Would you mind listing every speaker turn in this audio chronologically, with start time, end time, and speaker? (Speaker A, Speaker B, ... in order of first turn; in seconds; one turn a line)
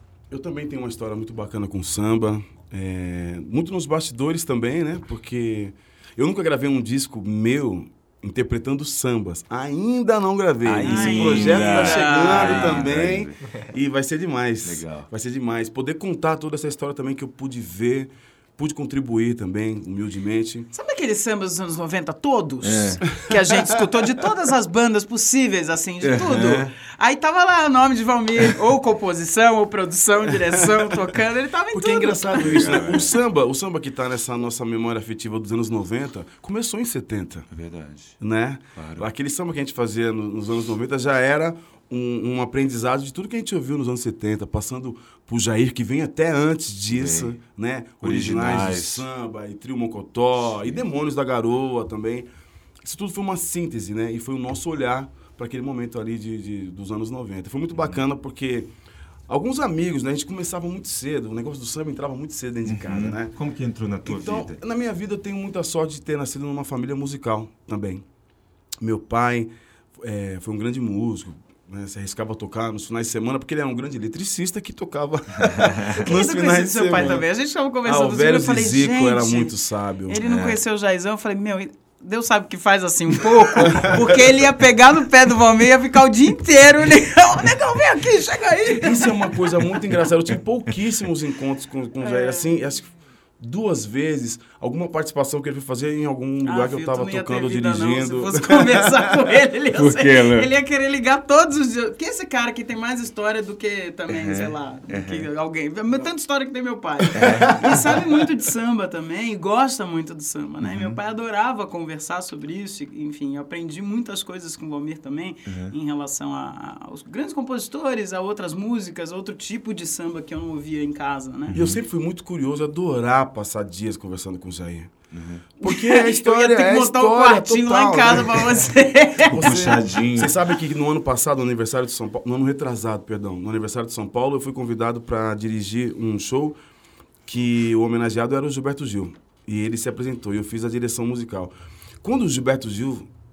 Speaker A: 0.3-20.7
Speaker B: 10.6-13.5
Speaker C: 10.8-12.9
Speaker B: 14.6-15.1
Speaker C: 20.7-33.1
Speaker B: 22.6-23.0
Speaker B: 26.0-26.7
Speaker A: 31.7-37.5
Speaker B: 32.4-33.1
Speaker B: 37.5-38.2
Speaker A: 38.2-52.3
Speaker B: 38.8-39.1
Speaker B: 46.9-47.4
Speaker B: 48.0-49.1
Speaker A: 52.8-58.7
Speaker A: 59.3-63.3
Speaker B: 62.6-64.6
Speaker A: 64.0-68.0
Speaker A: 68.8-77.2
Speaker B: 75.5-75.9
Speaker C: 75.9-79.5
Speaker A: 77.8-80.2
Speaker C: 80.1-89.2
Speaker B: 80.2-80.6
Speaker A: 83.6-83.9
Speaker A: 88.8-99.0
Speaker C: 92.0-92.5
Speaker C: 96.4-121.5
Speaker B: 99.7-100.5
Speaker B: 104.1-105.3
Speaker B: 107.1-107.8
Speaker A: 107.2-107.8
Speaker B: 110.6-111.0
Speaker B: 115.5-115.7
Speaker B: 121.5-121.8
Speaker A: 121.5-124.9
Speaker B: 125.1-125.4
Speaker A: 125.6-128.7
Speaker C: 125.6-129.5
Speaker A: 129.3-136.6
Speaker B: 129.3-130.3
Speaker A: 137.2-143.1